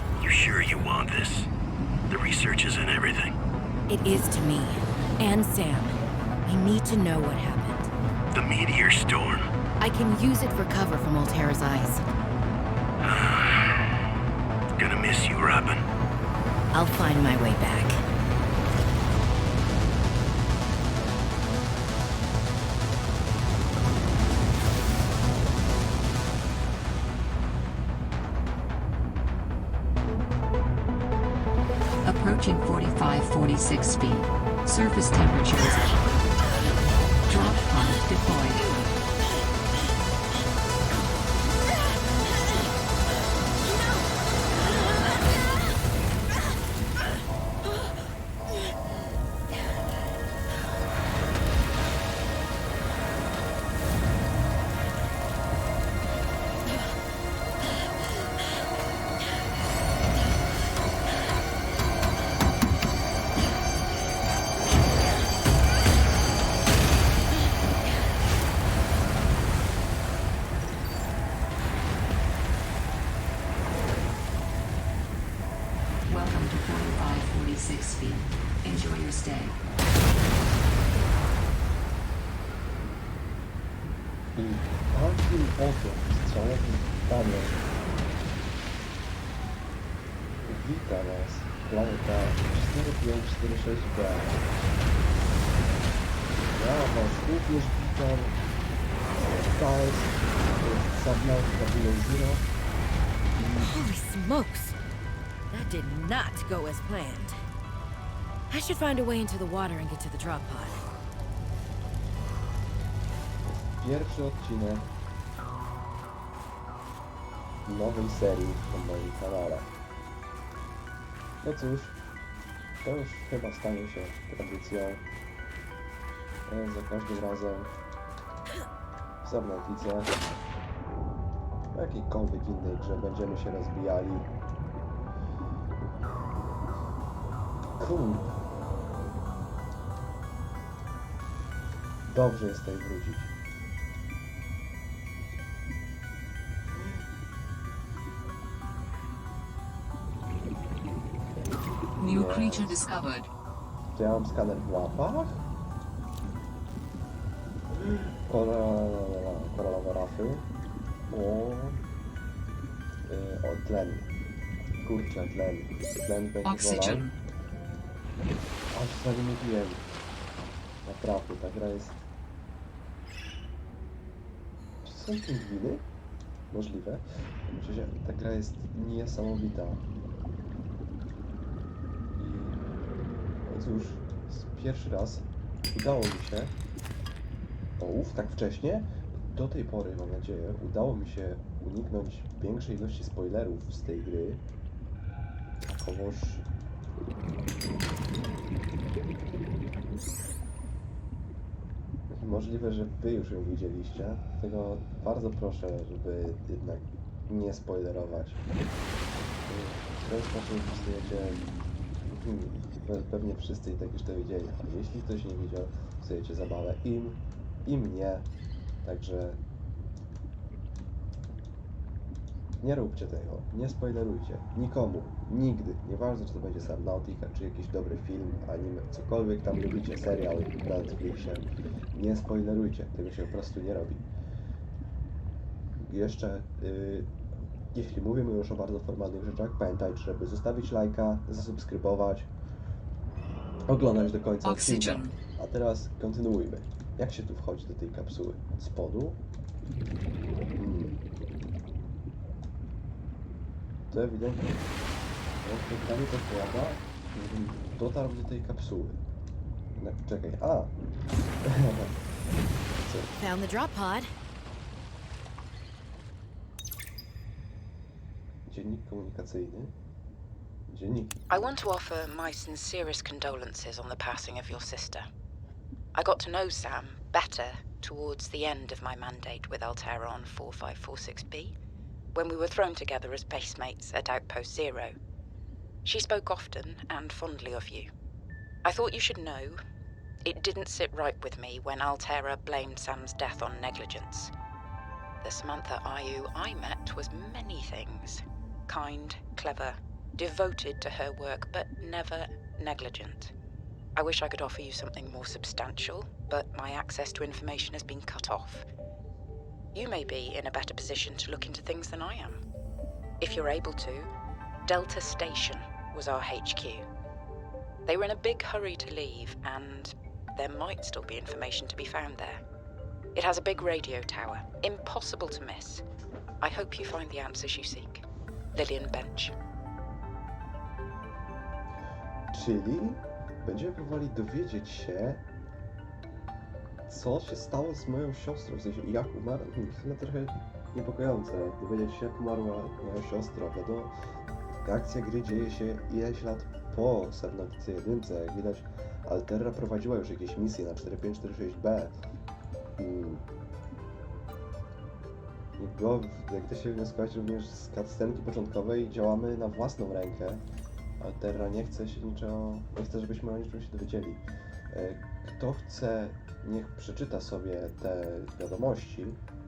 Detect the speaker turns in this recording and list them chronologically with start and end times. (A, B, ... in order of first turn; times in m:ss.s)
0:00.2-0:01.5 A
0:02.1-0:03.4 A
0:03.9-0:07.9 B
0:08.3-0:09.5 A
0:09.8-0:12.0 B
0:13.0-0:13.9 A
0:14.8-0:15.8 A
0:16.7-0:18.0 B
0:32.0-0:36.0 C
0:37.3-0:38.6 C
1:16.1-1:19.6 C
1:24.3-1:27.7 D
1:30.4-1:34.4 D
1:36.4-1:38.4 D
1:39.2-1:42.4 D
1:43.4-1:43.7 D
1:43.6-1:44.8 B
1:45.5-1:47.4 B
1:48.5-1:50.8 B
1:53.4-1:54.9 D
1:57.6-1:59.7 D
2:01.4-2:02.0 D
2:02.8-2:05.0 D
2:06.5-2:07.7 D
2:09.2-2:10.4 D
2:11.7-2:14.3 D
2:17.8-2:18.3 D
2:22.0-2:23.3 D
2:32.0-2:33.3 C
2:32.0-2:32.8 D
2:33.9-2:35.4 D
2:37.8-2:40.5 D
2:41.1-2:41.8 D
2:43.0-2:44.1 D
2:44.8-2:47.1 D
2:46.4-2:47.2 C
2:48.7-2:49.8 D
2:50.8-2:52.0 D
2:54.8-2:55.8 D
2:56.5-2:59.8 D
3:02.2-3:02.6 D
3:03.4-3:06.5 D
3:07.8-3:14.4 D
3:15.6-3:16.4 D
3:22.1-3:28.4 D
3:29.4-3:31.5 D
3:32.0-3:38.3 D
3:38.8-3:39.4 D
3:42.6-3:54.0 D
3:55.8-3:57.1 D
3:57.7-4:02.3 D
4:03.7-4:09.2 D
4:04.4-4:05.1 C
4:10.5-4:11.0 D
4:13.9-4:14.7 D
4:15.4-4:19.0 D
4:19.7-4:20.7 D
4:21.4-4:21.9 D
4:22.8-4:23.1 D
4:23.2-4:24.1 B
4:28.4-4:29.7 D
4:30.7-4:31.5 D
4:31.3-4:35.1 E
4:35.9-4:41.5 E
4:42.1-4:44.9 E
4:45.8-4:47.9 E
4:48.6-4:49.6 E
4:50.2-4:54.3 E
4:55.2-5:03.3 E
5:04.0-5:08.6 E
5:09.7-5:12.4 E
5:13.2-5:14.1 E
5:14.7-5:16.8 E
5:17.8-5:22.4 E
5:23.1-5:25.8 E
5:26.4-5:29.3 E
5:32.3-5:35.2 D
5:36.9-5:43.9 D
5:44.6-5:52.0 D
5:52.8-5:53.2 D
5:55.6-6:00.4 D
6:01.0-6:09.2 D